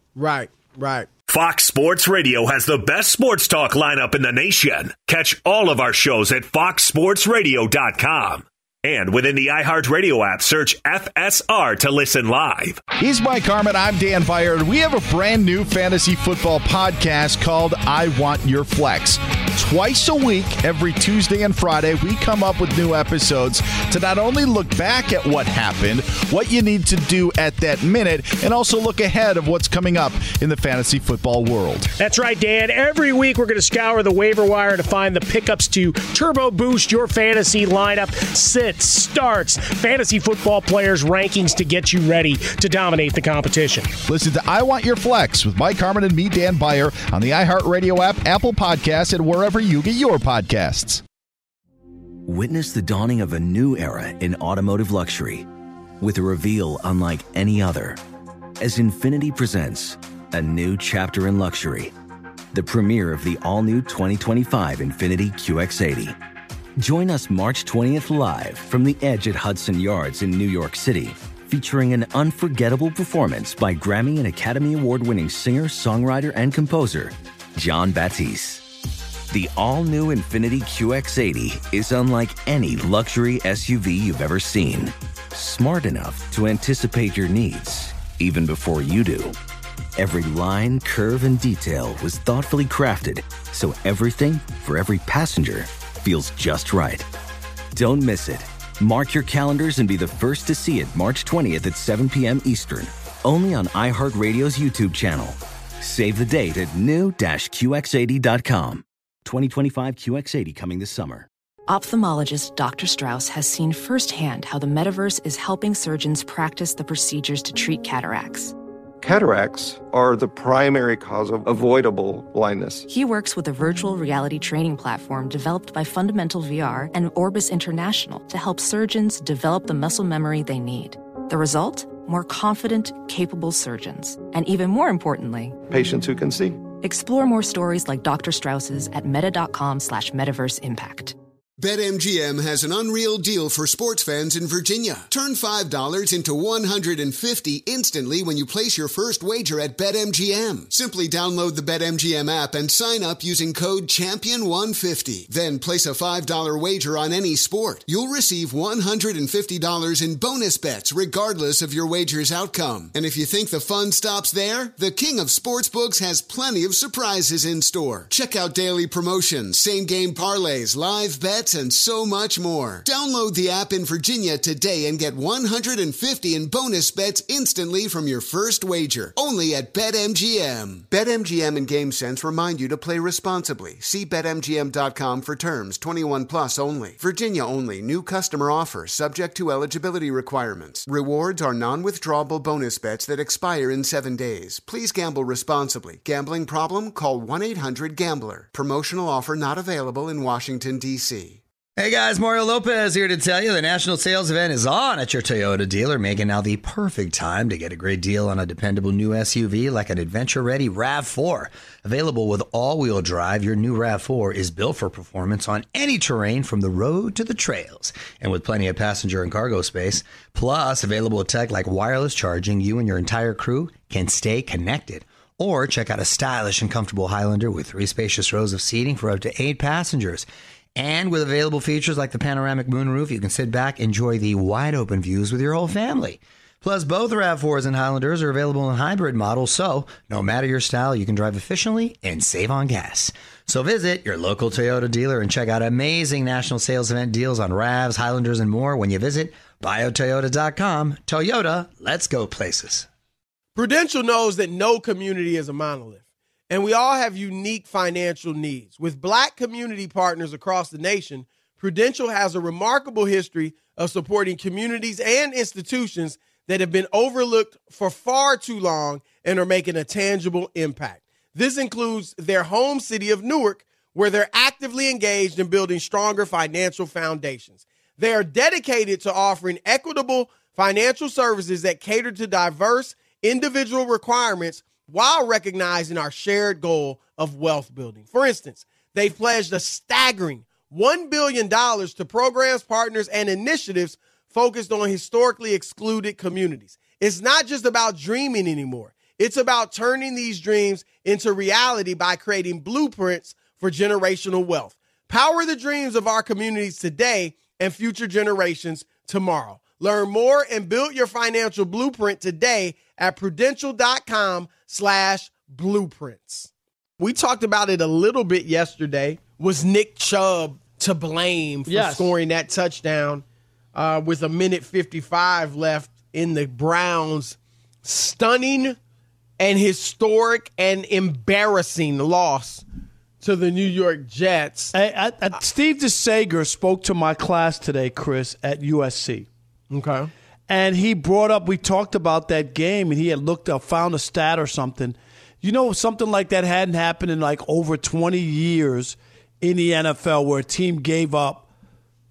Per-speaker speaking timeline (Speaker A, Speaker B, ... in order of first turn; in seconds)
Speaker A: 0.2-1.1, 253.6-328.8, 329.4-332.6, 333.2-334.7, 339.7-340.1
Speaker B: 1.3-12.8
Speaker C: 13.0-31.9, 44.1-51.0
Speaker D: 32.0-43.9
Speaker E: 52.3-55.5, 56.0-58.0, 58.6-61.9, 62.5-66.2, 66.8-78.7, 79.3-89.4, 90.0-97.1, 97.7-111.3
Speaker F: 111.7-118.5, 122.9-135.6, 136.8-141.2
Speaker G: 119.0-122.8, 135.7-136.6
Speaker H: 141.6-201.4
Speaker I: 201.8-252.9
Speaker J: 321.7-322.1, 334.7-339.3, 340.5-351.5